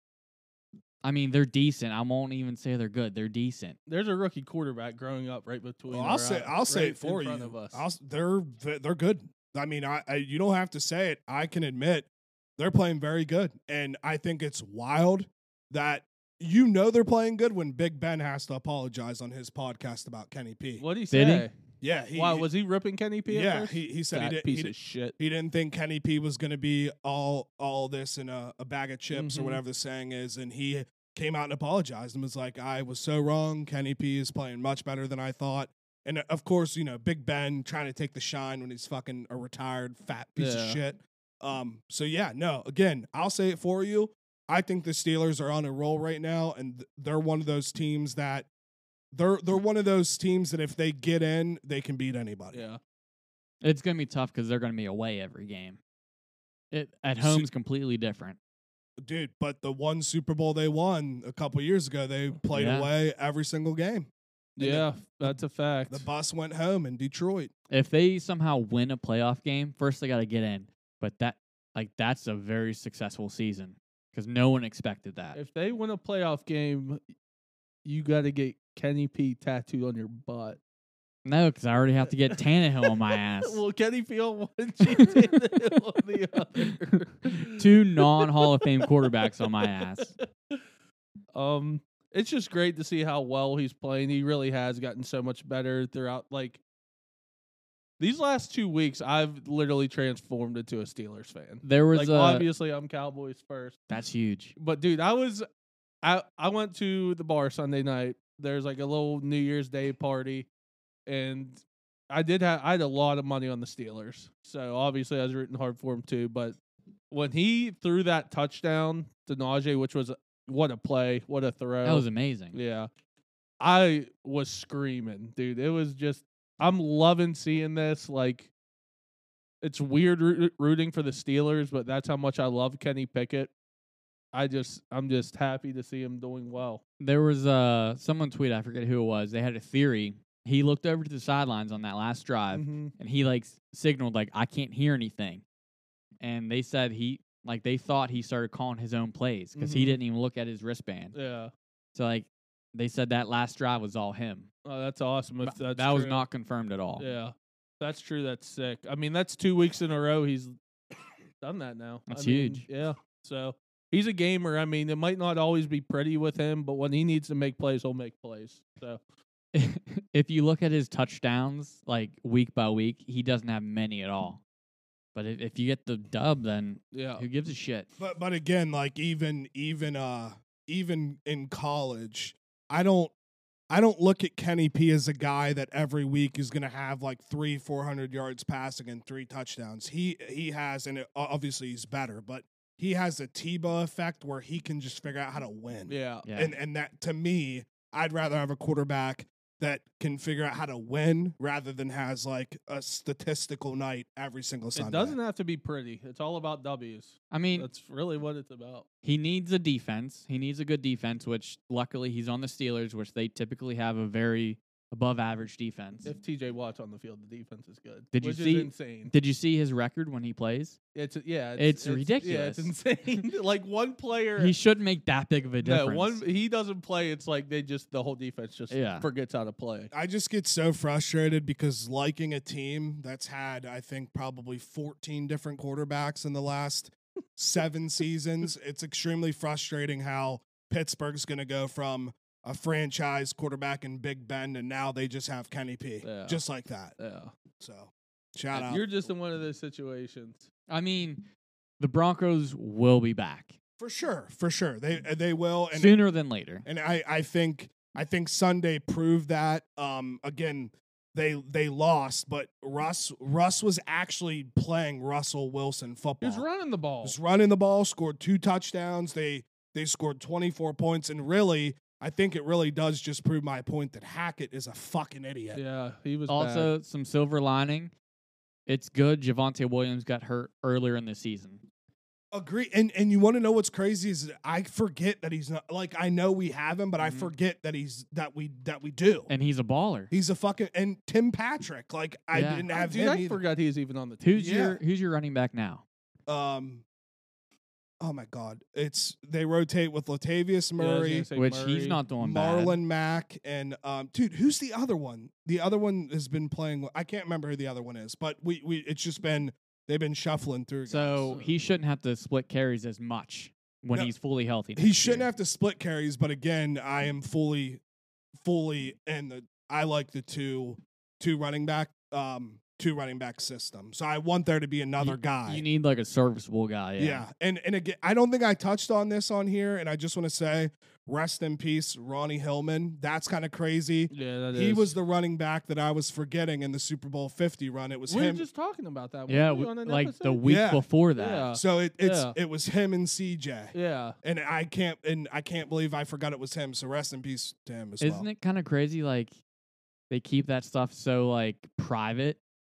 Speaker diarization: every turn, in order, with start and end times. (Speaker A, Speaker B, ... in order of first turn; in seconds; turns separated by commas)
Speaker A: 1.0-3.8, Speaker B: 3.9-7.9, Speaker C: 5.9-20.9, Speaker B: 20.8-21.5, Speaker A: 21.1-21.5, Speaker C: 21.8-22.5, Speaker B: 22.1-25.2, Speaker C: 23.3-48.5, Speaker B: 29.1-29.6, Speaker B: 40.4-40.8, Speaker C: 49.1-52.6, Speaker B: 52.5-52.8, Speaker A: 53.6-55.8, Speaker A: 56.7-58.4, Speaker C: 57.2-57.5, Speaker C: 59.0-64.9, Speaker A: 62.5-62.9, Speaker B: 64.6-66.0, Speaker C: 65.9-67.5, Speaker A: 67.7-75.4, Speaker B: 75.3-77.0, Speaker B: 77.8-80.6, Speaker A: 81.2-83.6, Speaker B: 82.8-90.6, Speaker A: 87.4-90.1, Speaker B: 91.3-96.6, Speaker B: 98.0-103.8, Speaker A: 101.6-102.5, Speaker A: 103.9-104.5, Speaker B: 104.6-105.5, Speaker B: 106.0-110.5, Speaker B: 111.1-116.6, Speaker B: 117.1-122.9, Speaker A: 121.8-122.6, Speaker B: 123.6-128.5, Speaker B: 129.6-133.5, Speaker B: 134.3-136.8, Speaker A: 137.0-145.4, Speaker B: 142.5-142.9, Speaker A: 146.2-151.2, Speaker B: 149.6-150.0, Speaker B: 151.1-151.5, Speaker A: 151.9-154.5, Speaker B: 154.7-156.2, Speaker A: 155.4-157.1, Speaker B: 157.0-160.6, Speaker B: 161.4-169.0, Speaker A: 162.1-162.7, Speaker A: 169.5-174.4, Speaker A: 175.2-177.9, Speaker B: 176.9-177.2, Speaker C: 178.0-183.1, Speaker C: 183.7-205.2, Speaker B: 195.9-196.3, Speaker A: 196.2-196.6, Speaker B: 204.8-208.9, Speaker A: 207.3-207.7, Speaker A: 209.0-216.1, Speaker B: 216.1-219.1, Speaker A: 218.1-220.8, Speaker B: 220.9-224.6, Speaker A: 221.6-222.7, Speaker A: 224.4-226.2, Speaker B: 225.6-229.9, Speaker A: 228.7-229.1, Speaker C: 229.9-246.9, Speaker B: 246.0-246.4, Speaker B: 247.0-247.3, Speaker C: 247.6-248.9, Speaker B: 248.5-250.5, Speaker A: 250.7-251.3, Speaker A: 251.8-253.6, Speaker C: 253.8-256.0, Speaker A: 255.7-256.7, Speaker C: 256.7-266.4, Speaker B: 266.2-267.2, Speaker C: 267.0-275.6, Speaker B: 275.5-276.7, Speaker A: 276.3-277.9, Speaker A: 278.7-281.6, Speaker C: 282.3-289.3, Speaker A: 287.0-287.3, Speaker A: 289.3-290.1, Speaker C: 290.1-293.4, Speaker A: 292.3-292.7, Speaker B: 292.7-294.4, Speaker A: 294.2-295.8, Speaker C: 294.4-294.8, Speaker C: 296.3-296.8, Speaker C: 298.0-301.3, Speaker B: 300.8-302.0, Speaker A: 301.4-302.8, Speaker C: 302.2-311.3, Speaker A: 310.9-315.3, Speaker C: 314.8-317.8, Speaker C: 318.4-325.6, Speaker A: 325.0-327.2, Speaker C: 327.0-338.5, Speaker B: 334.1-334.9, Speaker B: 338.1-340.4, Speaker A: 339.3-341.5, Speaker C: 340.4-340.9, Speaker B: 341.2-342.4, Speaker C: 341.6-348.3, Speaker B: 343.7-344.2, Speaker A: 348.0-349.4, Speaker A: 350.1-352.4